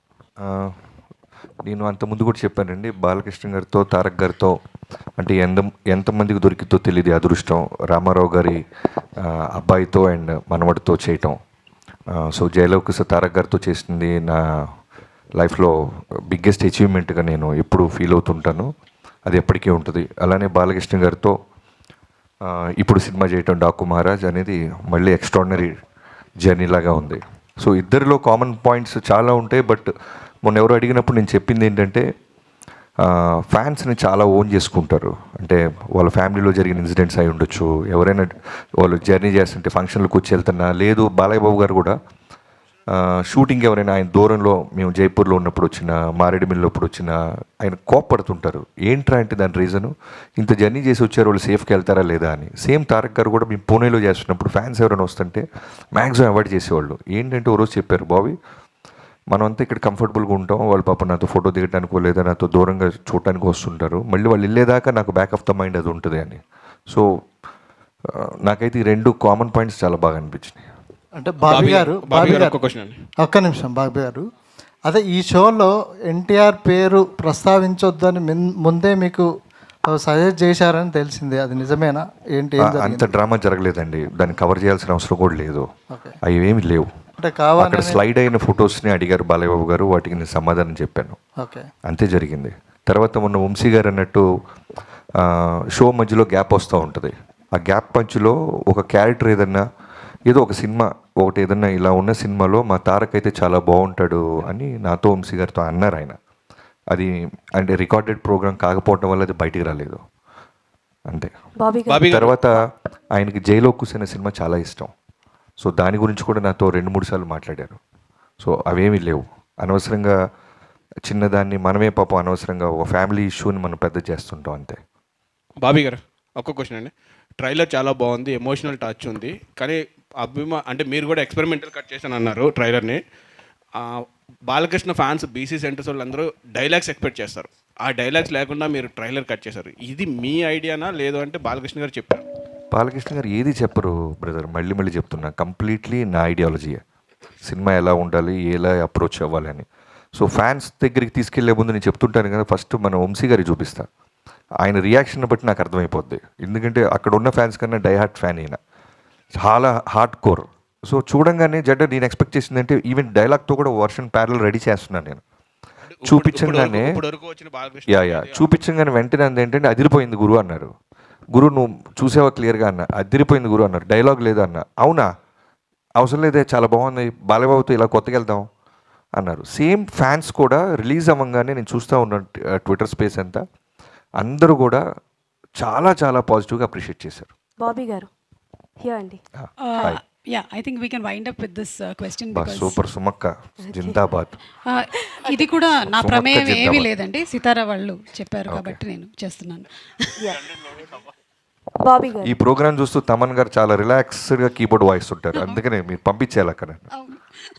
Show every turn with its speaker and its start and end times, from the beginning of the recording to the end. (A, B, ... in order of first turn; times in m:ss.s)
0:00.4-0:00.7 A
0:01.6-0:04.6 A
0:05.2-0:08.6 A
0:09.2-0:11.4 A
0:12.2-0:14.4 A
0:15.4-0:15.7 A
0:16.3-0:18.7 A
0:19.3-0:21.3 A
0:22.4-0:25.8 A
0:26.4-0:29.9 A
0:30.4-0:32.0 A
0:33.1-0:41.9 A
0:42.9-0:55.4 A
0:55.9-0:58.3 A
0:59.3-1:07.0 A
1:08.1-1:10.6 A
1:11.2-1:12.6 B
1:11.4-1:13.0 C
1:13.2-1:14.2 B
1:14.8-1:19.3 B
1:19.9-1:23.1 B
1:22.6-1:25.6 A
1:25.9-1:26.2 B
1:26.2-1:26.9 A
1:27.2-1:28.0 B
1:27.6-1:31.2 A
1:31.4-1:31.7 B
1:31.8-1:34.2 A
1:35.2-1:39.6 A
1:40.3-1:46.1 A
1:46.9-1:50.0 A
1:51.6-1:52.0 D
1:51.9-1:52.4 C
1:52.0-1:52.6 A
1:53.1-1:54.9 A
1:55.6-1:57.8 A
1:58.4-2:00.2 A
2:01.0-2:04.8 A
2:05.6-2:13.0 C
2:13.8-2:22.2 C
2:22.7-2:26.8 A
2:27.4-2:33.9 A
2:34.6-2:38.6 A
2:39.4-2:45.2 A
2:45.9-2:48.5 C
2:46.0-2:47.0 A
2:47.9-2:50.7 A
2:51.3-2:55.1 A
2:56.0-2:58.5 A
2:59.2-3:03.4 A
3:04.2-3:04.8 A
3:05.6-3:07.3 A
3:07.6-3:08.1 D
3:08.8-3:09.2 D
3:09.4-3:10.0 A
3:09.6-3:12.8 E
3:12.3-3:14.4 A
3:13.6-3:14.0 D
3:14.7-3:20.3 E
3:16.0-3:16.9 A
3:18.5-3:18.8 A
3:21.8-3:22.3 D
3:22.2-3:26.8 A
3:27.0-3:27.2 E